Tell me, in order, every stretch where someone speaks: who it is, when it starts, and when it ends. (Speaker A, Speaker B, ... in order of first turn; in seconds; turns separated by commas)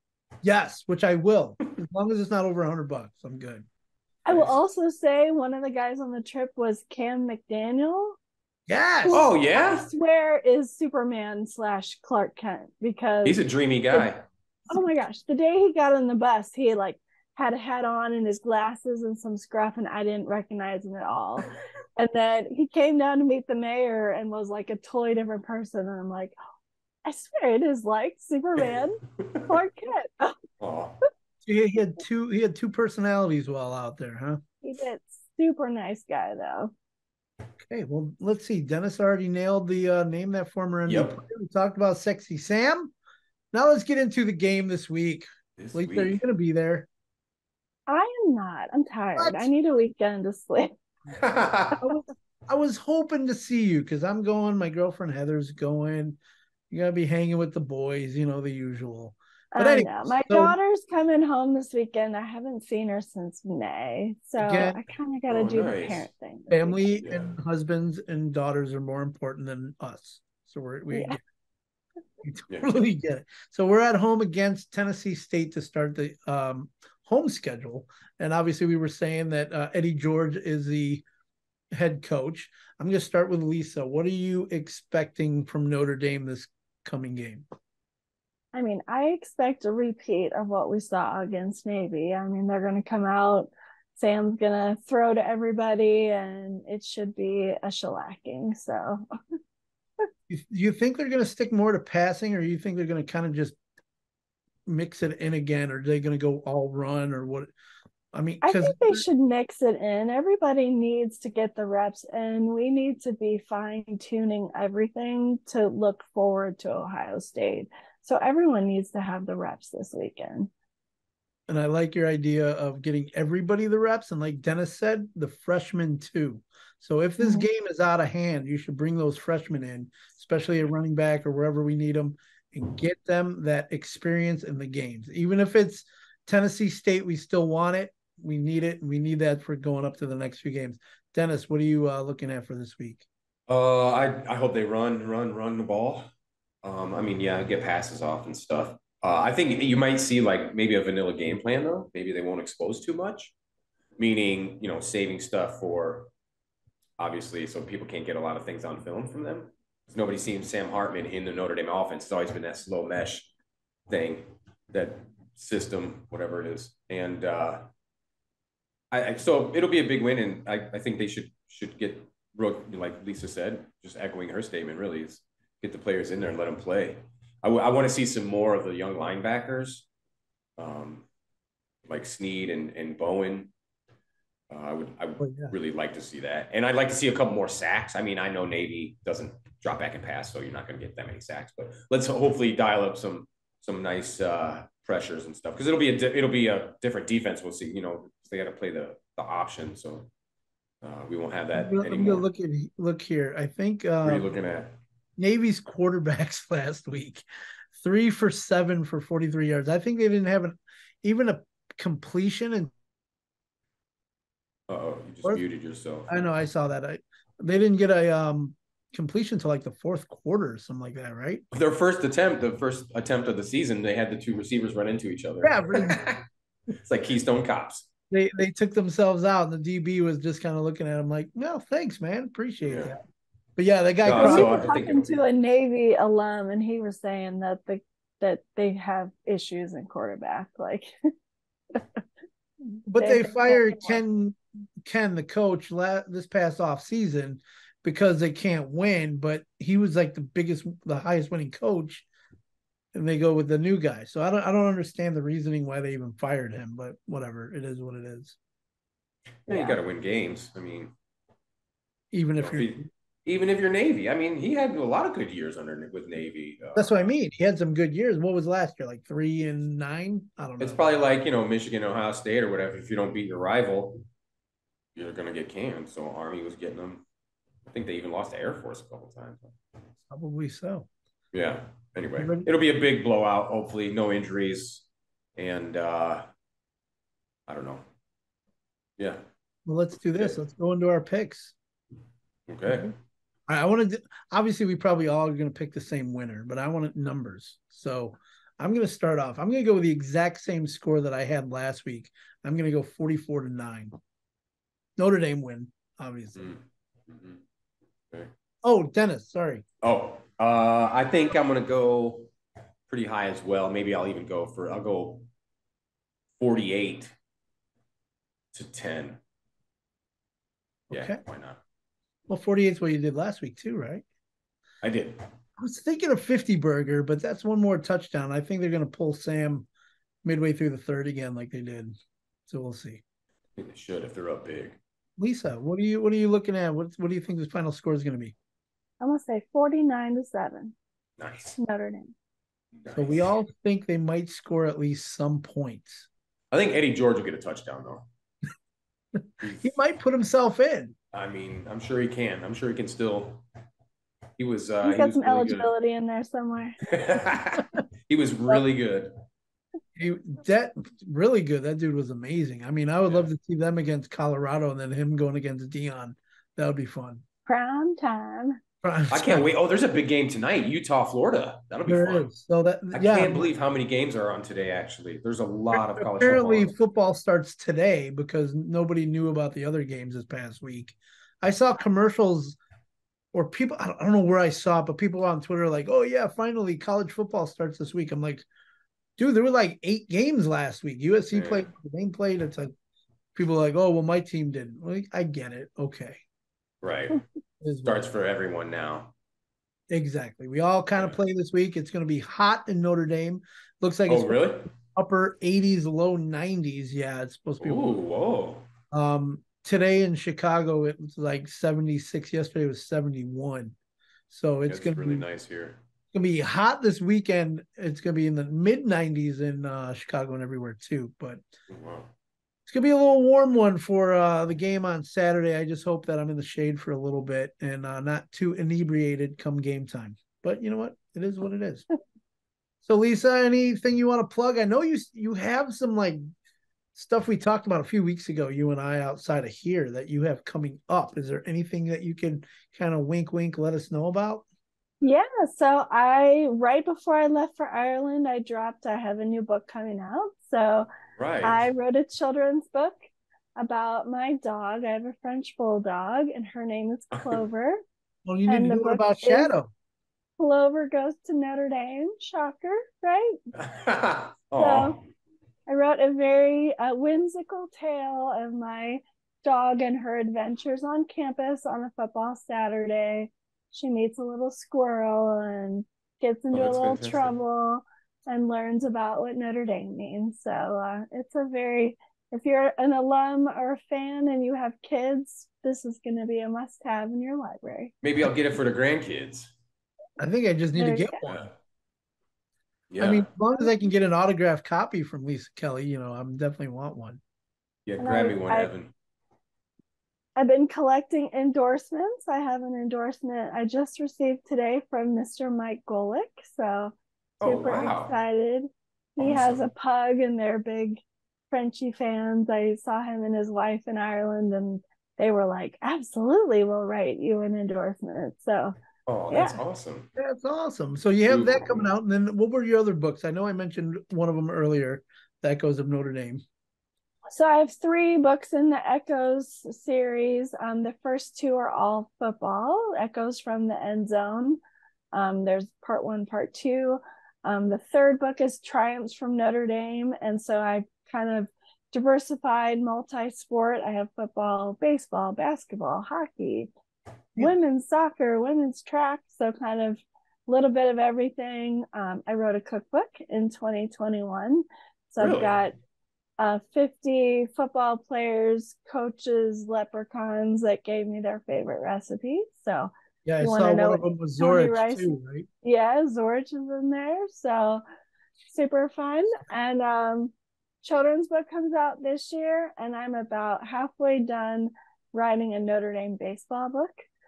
Speaker A: 0.4-3.6, Speaker B: 4.2-8.2, Speaker C: 4.3-4.5, Speaker A: 8.7-9.3, Speaker B: 9.0-13.4, Speaker C: 9.1-9.9, Speaker C: 13.2-14.2, Speaker B: 14.7-26.3, Speaker B: 27.0-30.4, Speaker C: 30.6-30.9, Speaker A: 31.4-34.4, Speaker B: 34.6-36.7, Speaker A: 37.6-42.9, Speaker C: 40.9-41.2, Speaker A: 43.5-46.9, Speaker C: 45.6-46.2, Speaker B: 47.9-50.7, Speaker A: 49.2-49.5, Speaker C: 51.2-51.8, Speaker A: 51.8-56.2, Speaker A: 56.7-60.5, Speaker B: 59.5-66.8, Speaker A: 64.4-64.8, Speaker C: 65.3-66.1, Speaker A: 66.5-71.2, Speaker C: 67.0-67.3, Speaker B: 70.9-71.2, Speaker A: 72.2-81.0, Speaker A: 81.7-87.5, Speaker B: 88.5-99.0, Speaker A: 100.3-103.5, Speaker A: 104.7-107.5, Speaker A: 108.1-109.0, Speaker B: 108.4-120.5, Speaker A: 121.5-143.1, Speaker B: 127.2-127.5, Speaker C: 143.5-146.1, Speaker C: 146.6-153.3, Speaker C: 154.0-156.1, Speaker C: 157.0-163.3, Speaker C: 163.9-167.7, Speaker C: 168.9-179.9, Speaker C: 180.6-181.0, Speaker C: 181.9-183.5, Speaker C: 184.5-200.1, Speaker A: 185.2-185.5, Speaker C: 200.8-202.2, Speaker A: 201.5-204.3, Speaker C: 204.0-204.7, Speaker A: 205.2-207.2, Speaker A: 207.7-212.7, Speaker C: 214.7-216.3, Speaker A: 216.1-221.4, Speaker C: 221.5-226.2, Speaker A: 225.4-226.1, Speaker C: 226.8-227.9, Speaker A: 228.1-233.0, Speaker C: 232.7-232.9, Speaker A: 233.6-234.8, Speaker C: 234.0-235.2, Speaker B: 234.1-240.9, Speaker A: 242.8-252.1, Speaker B: 243.0-244.0, Speaker A: 252.9-258.4, Speaker C: 259.4-260.9, Speaker A: 262.1-262.9, Speaker C: 262.4-267.0, Speaker A: 266.8-270.8, Speaker C: 270.6-274.0, Speaker C: 274.9-277.0, Speaker C: 277.7-279.6, Speaker A: 280.1-280.9, Speaker C: 281.3-284.9, Speaker A: 282.2-282.5, Speaker C: 285.4-286.2, Speaker C: 287.5-287.8, Speaker A: 289.6-291.5, Speaker C: 292.5-292.9, Speaker A: 292.7-292.9, Speaker A: 293.5-304.0, Speaker A: 305.0-306.4, Speaker C: 306.4-307.4, Speaker A: 308.6-309.6, Speaker C: 309.8-312.3, Speaker C: 312.9-315.3, Speaker C: 316.4-317.1, Speaker C: 318.5-319.2, Speaker A: 320.9-321.2, Speaker C: 320.9-321.6, Speaker A: 322.3-324.0, Speaker C: 324.8-325.2, Speaker A: 325.6-329.7, Speaker A: 330.2-331.9, Speaker A: 332.5-333.0, Speaker C: 333.6-334.8, Speaker A: 335.2-338.3, Speaker B: 339.0-340.7, Speaker C: 341.2-341.6, Speaker B: 341.6-342.1, Speaker C: 342.8-343.2, Speaker A: 342.9-346.1, Speaker C: 346.5-348.1, Speaker C: 349.4-349.7, Speaker A: 349.6-350.9, Speaker C: 351.1-353.4, Speaker C: 354.4-355.7, Speaker B: 354.8-356.8, Speaker C: 356.9-359.1, Speaker A: 359.9-367.2, Speaker B: 367.4-368.6, Speaker A: 368.8-369.5, Speaker C: 369.1-372.3, Speaker A: 371.9-373.5, Speaker C: 372.9-376.7, Speaker A: 375.7-382.6, Speaker A: 383.3-388.4, Speaker A: 389.2-392.7, Speaker C: 391.3-391.7, Speaker A: 393.4-396.2, Speaker C: 396.8-397.2, Speaker A: 397.6-398.0, Speaker C: 397.8-399.1, Speaker A: 399.9-407.9, Speaker C: 404.1-404.7, Speaker C: 407.6-408.7, Speaker A: 408.9-413.7, Speaker A: 414.3-415.2, Speaker C: 414.7-415.8, Speaker A: 416.1-421.4, Speaker C: 421.7-422.1, Speaker A: 422.6-431.9, Speaker A: 432.8-436.2, Speaker A: 436.9-444.4, Speaker B: 445.0-450.9, Speaker C: 451.2-451.7, Speaker B: 451.4-452.9, Speaker B: 453.6-457.8, Speaker A: 458.2-459.7, Speaker B: 458.5-459.5, Speaker B: 460.4-463.4, Speaker C: 463.6-465.0, Speaker B: 464.6-465.0, Speaker B: 465.7-487.9, Speaker C: 476.5-477.3, Speaker C: 488.0-489.5, Speaker A: 490.2-491.5, Speaker B: 490.8-491.2, Speaker C: 491.2-491.5, Speaker C: 492.9-493.3, Speaker A: 493.0-497.2, Speaker C: 497.9-498.9, Speaker B: 498.0-498.7, Speaker B: 500.4-511.0, Speaker C: 507.4-508.1, Speaker C: 509.2-509.6, Speaker B: 511.5-518.7, Speaker C: 519.0-520.1, Speaker B: 519.3-519.6, Speaker A: 520.2-526.4, Speaker C: 521.3-521.9, Speaker B: 527.3-534.6, Speaker B: 535.1-546.7, Speaker B: 547.4-555.7, Speaker C: 555.2-555.5, Speaker B: 556.4-567.8, Speaker A: 563.2-565.5, Speaker B: 568.5-570.3, Speaker B: 570.8-577.1